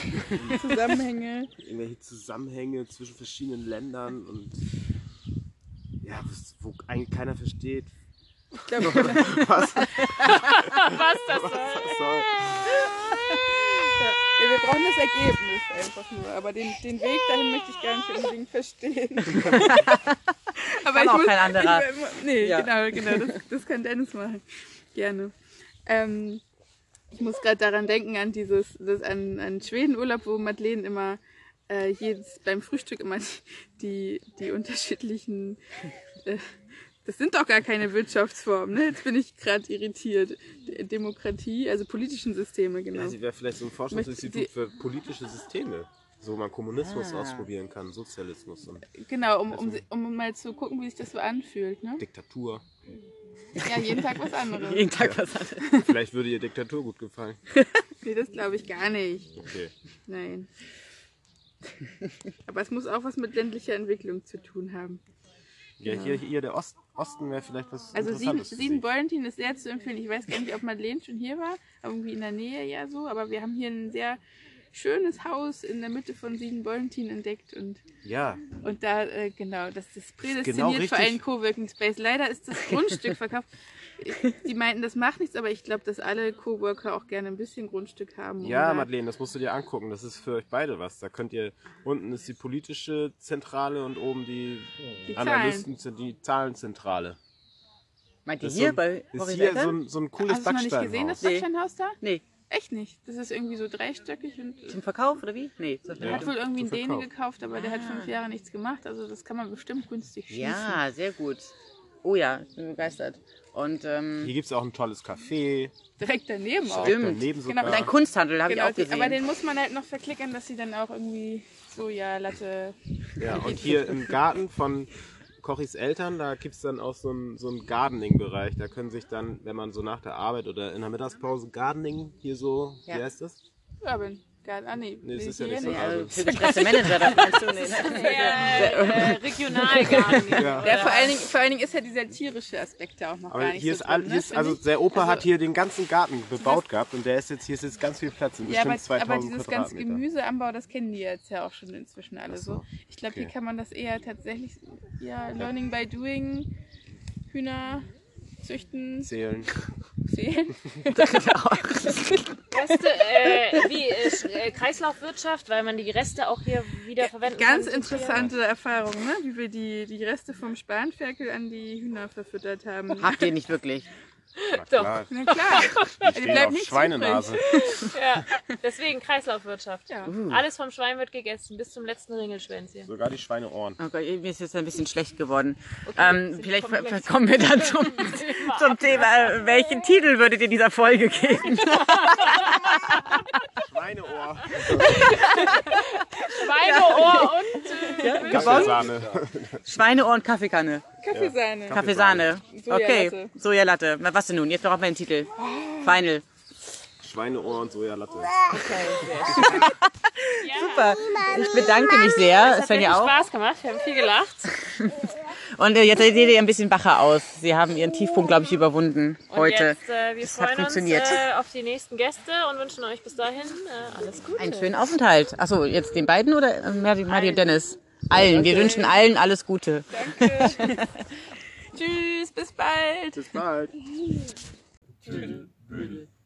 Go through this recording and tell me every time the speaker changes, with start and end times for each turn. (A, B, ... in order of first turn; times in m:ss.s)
0:00.3-0:00.7 A
0:00.5-0:01.5 B
0:01.6-0:04.6 A
0:06.0-0:07.9 A
0:08.6-0:09.4 B
0:08.8-0:12.8 A
0:09.0-0:10.4 C
0:10.3-0:12.1 D
0:14.0-0:19.8 B
0:19.3-0:23.4 C
0:20.6-0:25.3 B
0:25.8-0:26.4 B
0:27.1-0:35.6 B
0:37.0-0:43.2 B
0:42.9-0:48.9 A
0:43.9-0:44.5 B
0:46.8-0:47.5 C
0:49.0-0:52.0 B
0:49.5-0:49.8 A
0:52.0-0:52.6 A
0:53.6-0:55.9 C
0:53.6-0:54.9 B
0:55.0-0:55.2 A
0:55.8-0:57.4 A
0:58.0-0:59.4 B
0:59.4-0:59.7 A
1:00.1-1:00.5 B
1:02.5-1:05.0 B
1:05.8-1:08.8 A
1:07.9-1:14.2 B
1:14.7-1:17.8 B
1:18.0-1:18.4 A
1:18.6-1:28.9 B
1:20.2-1:21.2 A
1:28.4-1:37.2 A
1:35.1-1:35.7 B
1:38.2-1:39.8 C
1:38.4-1:41.3 A
1:40.2-1:44.8 B
1:41.2-1:41.5 C
1:42.0-1:42.2 C
1:44.7-1:46.3 C
1:46.0-1:47.1 A
1:46.0-1:50.8 B
1:47.5-1:48.1 C
1:50.3-1:51.5 C
1:52.0-1:54.3 C
1:54.2-1:55.7 A
1:56.0-1:57.9 B
1:56.7-1:59.2 C
1:56.7-1:57.9 A
1:58.4-2:03.6 B
2:03.2-2:04.9 A
2:03.3-2:04.1 C
2:05.4-2:13.4 A
2:13.8-2:19.1 B
2:15.0-2:16.3 A
2:15.6-2:20.6 C
2:17.2-2:21.2 D
2:20.3-2:20.8 A
2:20.6-2:25.2 B
2:23.3-2:30.0 A
2:28.4-2:36.5 B
2:32.3-2:33.3 A
2:37.3-2:37.9 B
2:38.4-2:39.1 B
2:39.0-2:39.5 A
2:40.0-2:41.0 B
2:40.9-2:42.2 C
2:42.5-2:48.3 D
2:47.2-2:53.1 B
2:53.0-2:53.9 C
2:54.4-2:56.1 D
2:54.5-2:55.1 A
2:55.1-2:57.6 B
2:55.8-2:57.4 A
2:57.4-3:02.9 D
3:00.1-3:00.4 C
3:02.8-3:03.8 A
3:03.8-3:13.2 C
3:05.8-3:09.1 D
3:11.7-3:12.7 D
3:13.6-3:15.1 A
3:14.6-3:18.8 D
3:14.9-3:15.6 C
3:16.2-3:18.9 C
3:18.2-3:19.6 A
3:19.6-3:20.8 C
3:21.0-3:21.8 B
3:21.1-3:22.3 A
3:21.7-3:26.2 C
3:22.5-3:23.3 B
3:25.4-3:26.0 B
3:27.0-3:28.5 A
3:28.5-3:29.6 D
3:29.3-3:33.1 C
3:30.4-3:34.5 D
3:34.6-3:41.3 C
3:39.3-3:44.8 D
3:44.4-3:51.0 C
3:47.1-3:47.6 D
3:48.1-3:48.8 A
3:48.2-3:49.0 B
3:49.9-3:50.8 B
3:51.7-3:53.4 B
3:53.1-3:53.8 A
3:55.1-3:55.4 B